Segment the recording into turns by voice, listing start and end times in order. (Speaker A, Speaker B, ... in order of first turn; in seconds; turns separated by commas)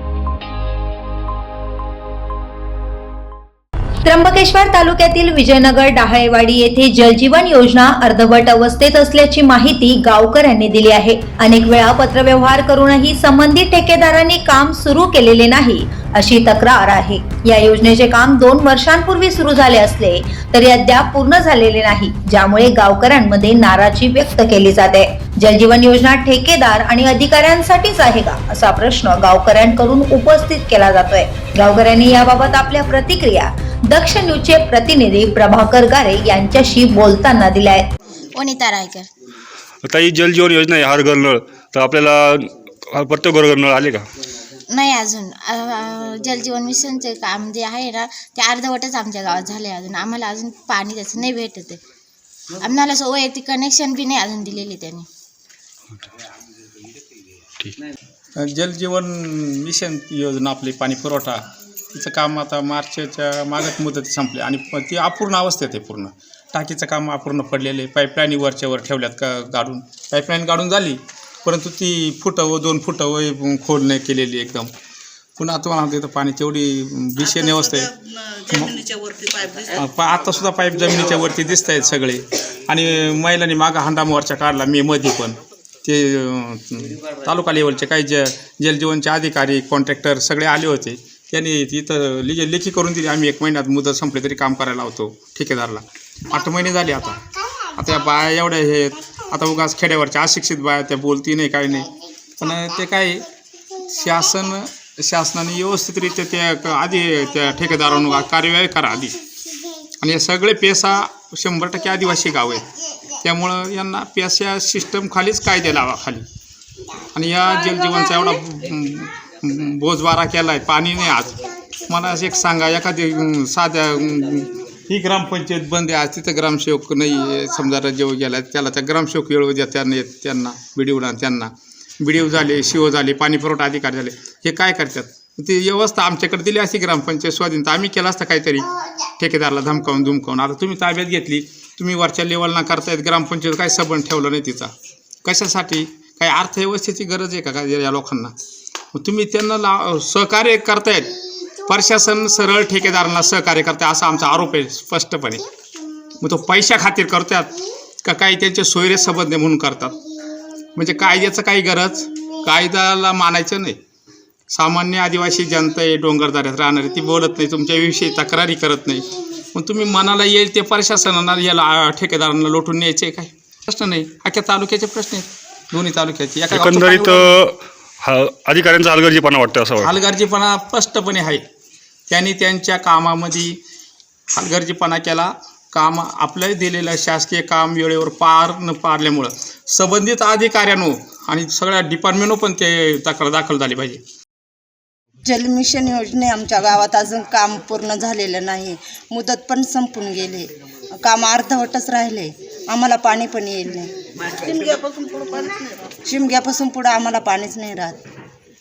Speaker A: 4.0-37.9, Speaker B: 38.3-39.1, Speaker C: 39.8-44.1, Speaker B: 44.7-51.8, Speaker B: 52.6-55.0, Speaker D: 58.4-61.4, Speaker D: 61.9-74.7, Speaker D: 75.4-77.9, Speaker E: 77.2-79.8, Speaker D: 79.8-109.2, Speaker D: 110.0-112.6, Speaker D: 113.2-116.2, Speaker D: 117.1-144.7, Speaker D: 145.2-148.3, Speaker D: 148.9-155.4, Speaker D: 156.2-160.0, Speaker D: 160.8-163.8, Speaker D: 164.5-177.4, Speaker C: 176.5-179.9, Speaker D: 179.8-181.4, Speaker D: 182.1-183.6, Speaker D: 184.3-194.0, Speaker E: 195.2-208.0